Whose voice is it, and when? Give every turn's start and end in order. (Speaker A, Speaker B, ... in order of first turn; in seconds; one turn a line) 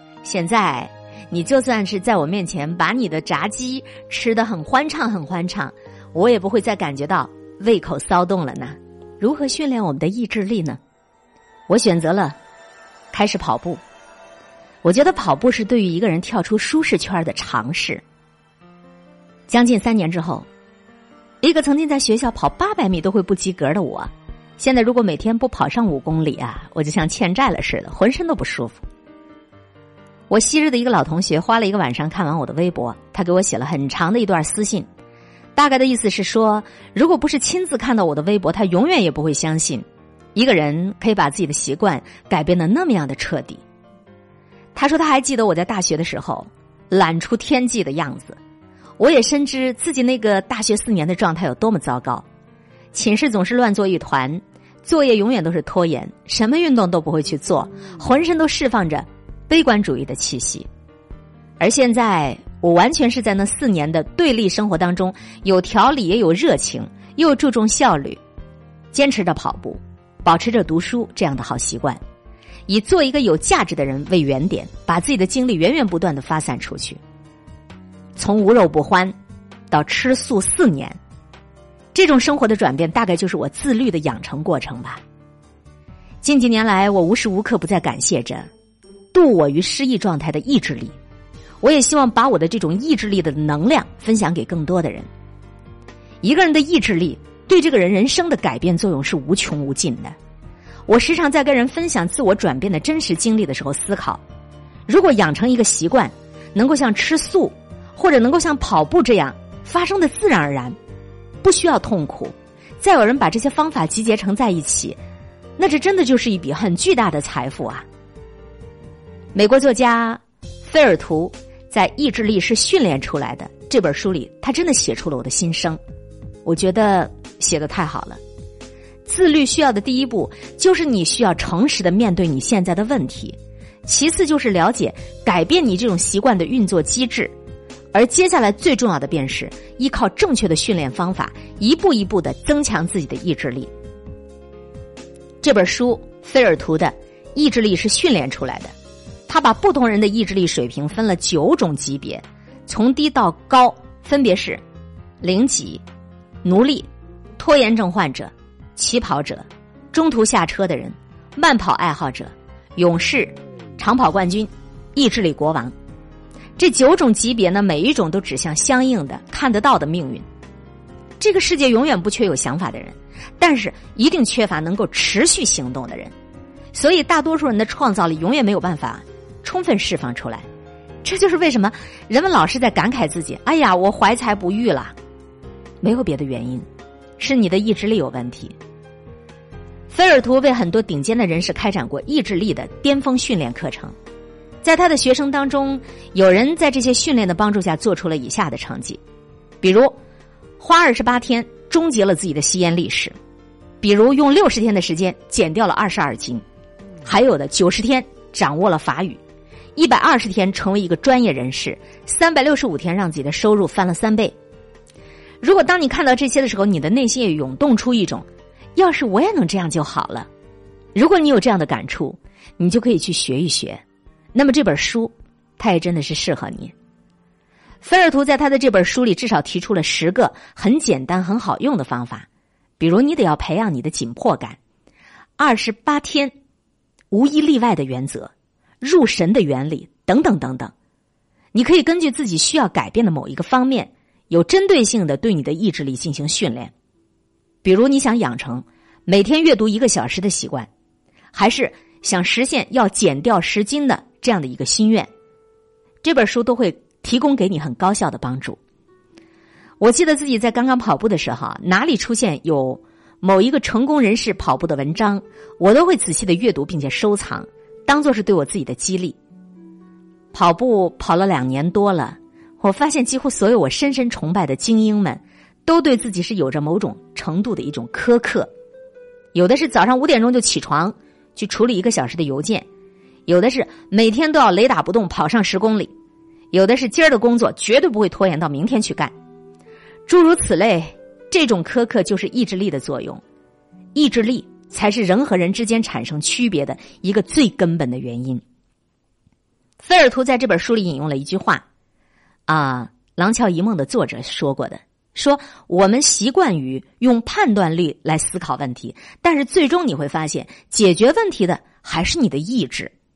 Speaker A: 0.2-10.8
Speaker A: 11.7-12.4
Speaker A: 13.1-13.8
Speaker A: 14.8-18.0
Speaker A: 19.5-20.5
Speaker A: 21.4-28.8
Speaker A: 30.3-34.9
Speaker A: 35.5-43.6
Speaker A: 44.7-48.4
Speaker A: 49.0-52.2
Speaker A: 52.9-60.7
Speaker A: 61.6-68.2
Speaker A: 68.9-72.0
Speaker A: 72.7-77.0
Speaker A: 78.2-79.1
Speaker A: 79.7-81.0
Speaker A: 81.9-85.0
Speaker A: 86.2-88.5
Speaker A: 89.1-91.0
Speaker A: 91.6-95.1
Speaker A: 96.2-100.1
Speaker A: 100.9-104.2
Speaker A: 104.9-110.8
Speaker A: 111.4-115.0
Speaker A: 115.6-117.8
Speaker A: 119.3-125.8
Speaker A: 126.4-128.2
Speaker A: 129.0-137.3
Speaker A: 137.9-143.7
Speaker A: 145.4-148.7
Speaker A: 149.3-154.6
Speaker A: 155.2-155.8
Speaker A: 156.4-165.7
Speaker A: 166.6-170.2
Speaker A: 171.2-176.1
Speaker A: 176.7-180.4
Speaker A: 181.0-184.9
Speaker A: 185.8-186.7
Speaker A: 187.2-188.6
Speaker A: 189.9-193.9
Speaker A: 194.6-199.0
Speaker A: 199.6-199.9
Speaker A: 200.6-203.1
Speaker A: 203.8-206.4
Speaker A: 207.0-209.2
Speaker A: 209.8-214.3
Speaker A: 215.4-220.3
Speaker A: 220.9-223.8
Speaker A: 224.3-226.7
Speaker A: 227.8-232.3
Speaker A: 232.8-234.6
Speaker A: 235.4-236.3
Speaker A: 237.1-240.7
Speaker A: 241.5-246.7
Speaker A: 247.6-250.7
Speaker A: 251.3-255.1
Speaker A: 256.0-258.6
Speaker A: 259.8-269.2
Speaker A: 270.3-278.5
Speaker A: 279.3-282.6
Speaker A: 283.3-285.9
Speaker A: 286.5-289.1
Speaker A: 290.1-293.2
Speaker A: 293.9-298.4
Speaker A: 299.8-301.6
Speaker A: 302.5-312.9